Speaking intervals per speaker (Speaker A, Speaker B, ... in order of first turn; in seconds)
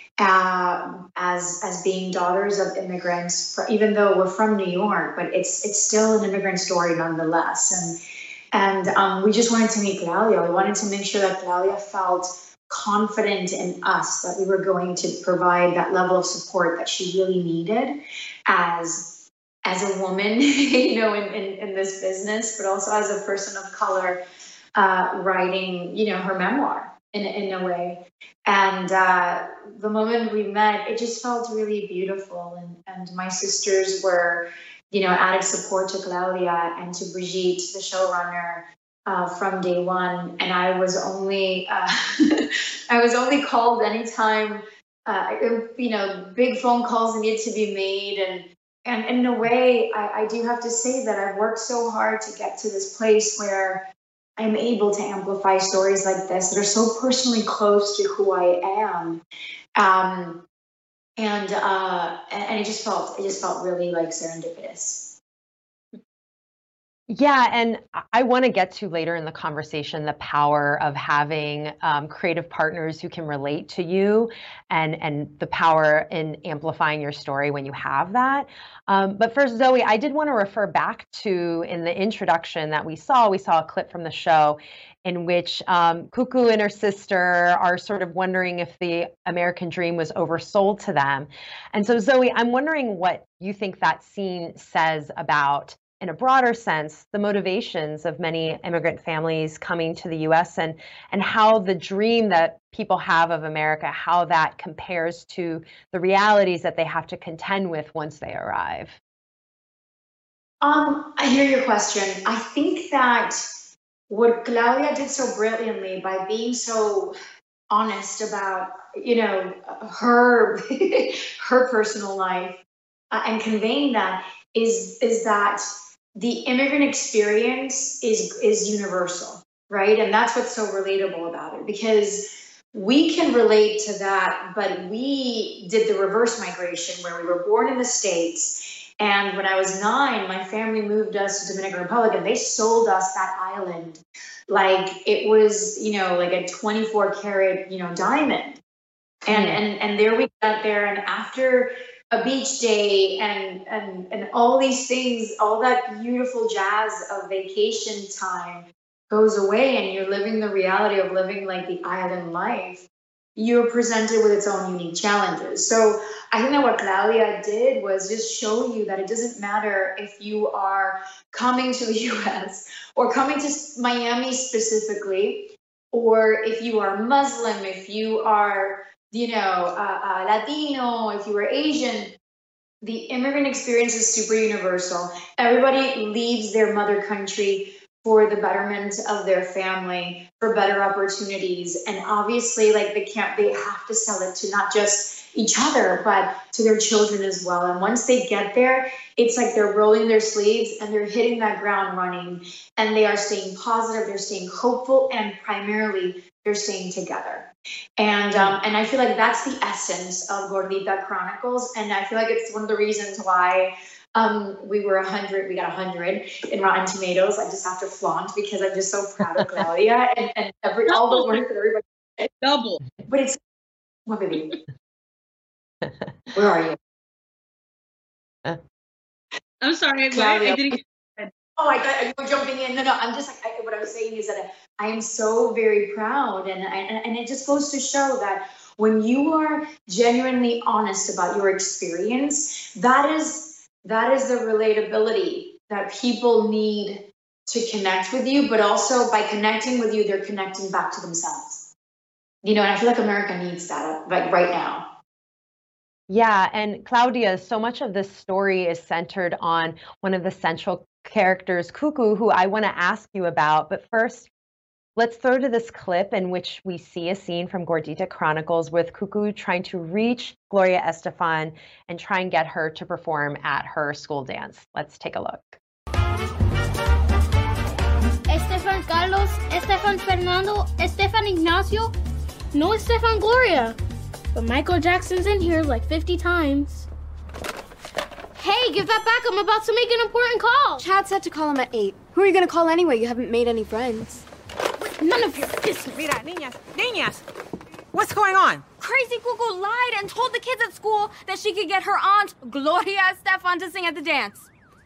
Speaker A: 0.2-8.0, 8.5-24.2, 24.7-53.8, 54.4-59.2, 59.8-60.4, 61.2-65.2, 110.6-113.4, 114.1-117.1, 117.7-122.6, 123.1-148.6, 149.2-162.8, 163.3-182.1, 182.8-222.3, 223.1-223.4, 224.1-224.6, 226.3-226.8, 230.1-230.8, 231.6-251.7, 252.4-254.8
Speaker B: 67.1-109.0, 149.3-149.6, 256.1-264.3, 265.0-275.6
Speaker C: 220.9-221.4, 222.4-222.8, 229.6-231.3
Speaker D: 278.3-281.9, 282.5-283.8, 284.3-286.9, 288.4-290.8, 295.0-296.0
Speaker E: 290.8-294.2, 298.8-304.5
Speaker F: 295.9-297.2, 297.9-298.6